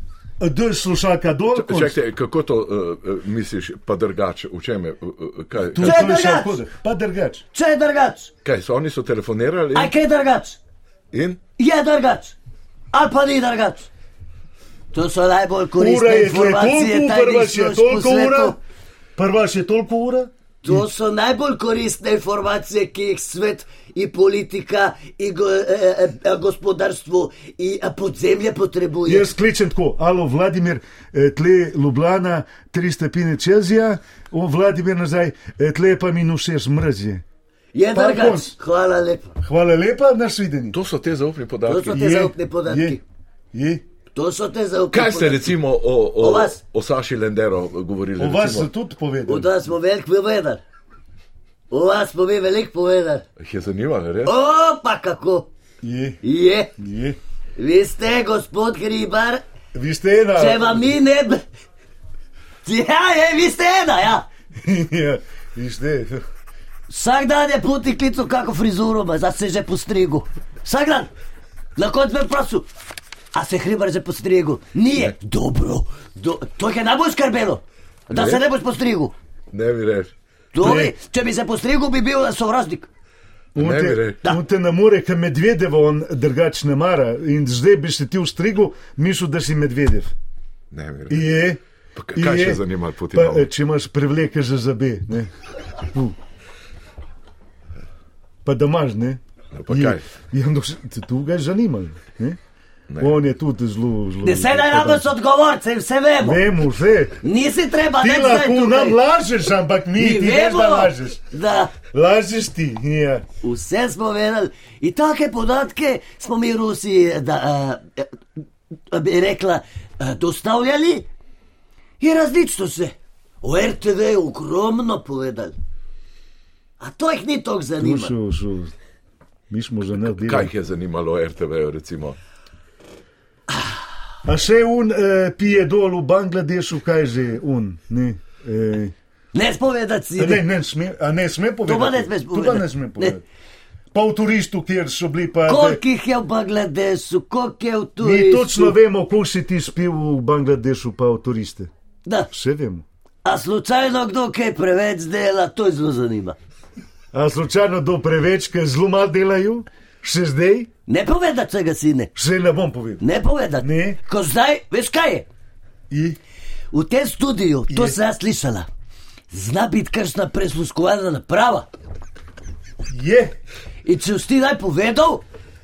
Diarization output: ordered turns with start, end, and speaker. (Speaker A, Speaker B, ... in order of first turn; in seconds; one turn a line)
Speaker A: 0.4-2.0
Speaker B: 1.5-6.1
Speaker A: 5.8-7.4
Speaker C: 5.8-6.6
Speaker C: 7.5-8.3
Speaker B: 8.4-9.9
Speaker C: 9.7-10.6
Speaker B: 11.1-11.4
Speaker C: 11.6-12.3
Speaker C: 12.9-13.9
Speaker C: 14.9-18.6
Speaker A: 15.8-18.6
Speaker A: 19.2-20.8
Speaker C: 20.6-29.3
Speaker A: 29.1-37.2
Speaker C: 37.8-39.3
Speaker A: 37.9-38.5
Speaker A: 39.4-40.8
Speaker B: 40.7-42.0
Speaker C: 41.7-43.0
Speaker A: 41.9-43.0
Speaker A: 43.5-43.8
Speaker C: 44.1-45.6
Speaker B: 44.9-48.7
Speaker C: 46.2-46.6
Speaker A: 48.2-49.5
Speaker C: 49.3-50.6
Speaker C: 51.7-53.2
Speaker B: 53.4-54.3
Speaker C: 54.2-55.5
Speaker A: 55.8-56.2
Speaker C: 56.2-56.7
Speaker A: 56.8-57.2
Speaker C: 57.6-59.4
Speaker A: 59.7-60.9
Speaker C: 60.4-61.4
Speaker C: 62.6-64.3
Speaker A: 64.6-66.2
Speaker C: 66.9-71.1
Speaker C: 71.8-72.7
Speaker C: 73.3-79.1
Speaker B: 78.1-78.4
Speaker B: 79.5-80.1
Speaker C: 80.5-82.9
Speaker A: 80.6-80.9
Speaker A: 83.5-90.1
Speaker B: 83.6-84.2
Speaker B: 90.7-91.4
Speaker A: 91.1-91.6
Speaker B: 92.0-93.5
Speaker A: 92.1-95.3
Speaker A: 95.8-96.2
Speaker A: 98.5-102.4
Speaker B: 99.5-100.0
Speaker B: 102.9-103.2
Speaker A: 103.0-105.1
Speaker C: 104.2-106.4
Speaker A: 106.2-107.2
Speaker C: 107.2-109.0
Speaker A: 108.0-111.2
Speaker C: 110.0-111.7
Speaker A: 111.9-113.3
Speaker C: 113.4-118.1
Speaker C: 118.9-121.1
Speaker C: 122.0-125.6
Speaker C: 126.8-128.1
Speaker A: 127.8-128.7
Speaker A: 129.5-130.5
Speaker B: 130.0-132.2
Speaker A: 134.2-138.9
Speaker C: 139.3-140.4
Speaker A: 140.2-143.2
Speaker C: 141.7-143.2
Speaker A: 143.9-145.8
Speaker C: 145.5-148.8
Speaker A: 148.0-151.7
Speaker A: 152.3-152.8
Speaker C: 153.2-156.4
Speaker A: 157.1-160.7
Speaker C: 160.9-162.1
Speaker A: 162.2-163.0
Speaker C: 163.0-165.3
Speaker A: 163.6-164.0
Speaker A: 165.9-166.2
Speaker C: 166.7-168.7
Speaker A: 167.7-168.0
Speaker C: 169.3-171.7
Speaker A: 172.9-173.3
Speaker C: 173.8-175.2